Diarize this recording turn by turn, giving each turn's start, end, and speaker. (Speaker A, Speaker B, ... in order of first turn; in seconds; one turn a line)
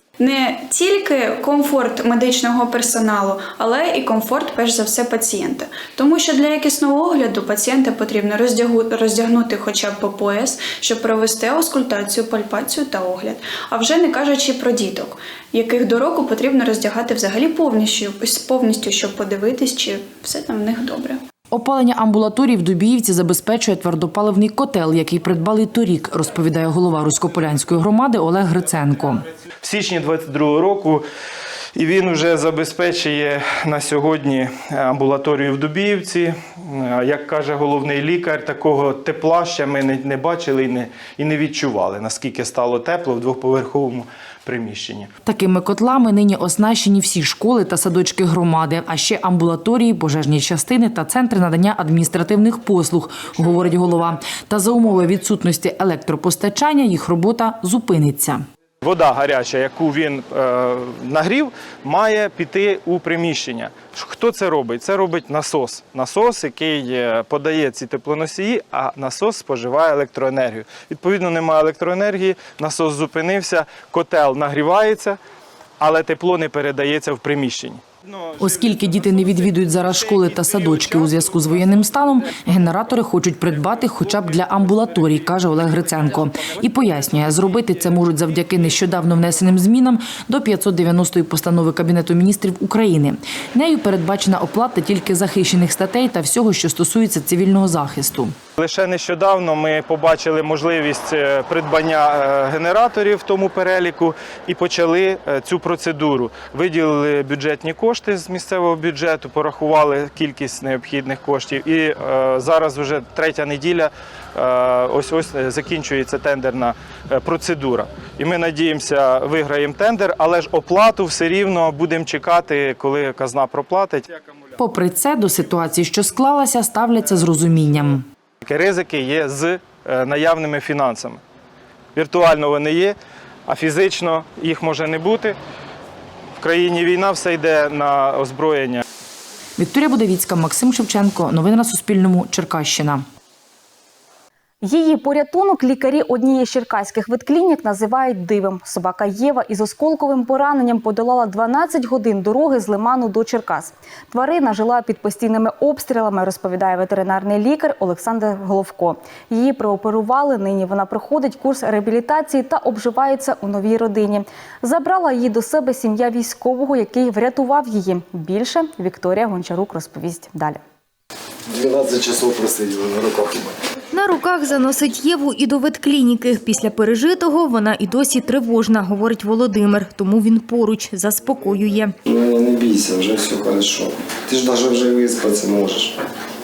Speaker A: 0.2-21.2
Speaker B: 21.5-29.2
Speaker C: 29.6-31.0
Speaker C: 31.8-45.1
Speaker B: 45.3-58.5
Speaker C: 58.8-75.2
Speaker C: 75.8-77.8
Speaker B: 78.4-98.3
Speaker C: 98.6-124.1
Speaker B: 124.6-128.1
Speaker C: 128.4-131.2
Speaker C: 131.9-133.0
Speaker C: 133.5-135.4
Speaker C: 136.4-138.8
Speaker B: 139.6-143.1
Speaker D: 144.6-170.6
Speaker E: 171.5-173.6
Speaker F: 173.9-181.9
Speaker E: 182.1-186.0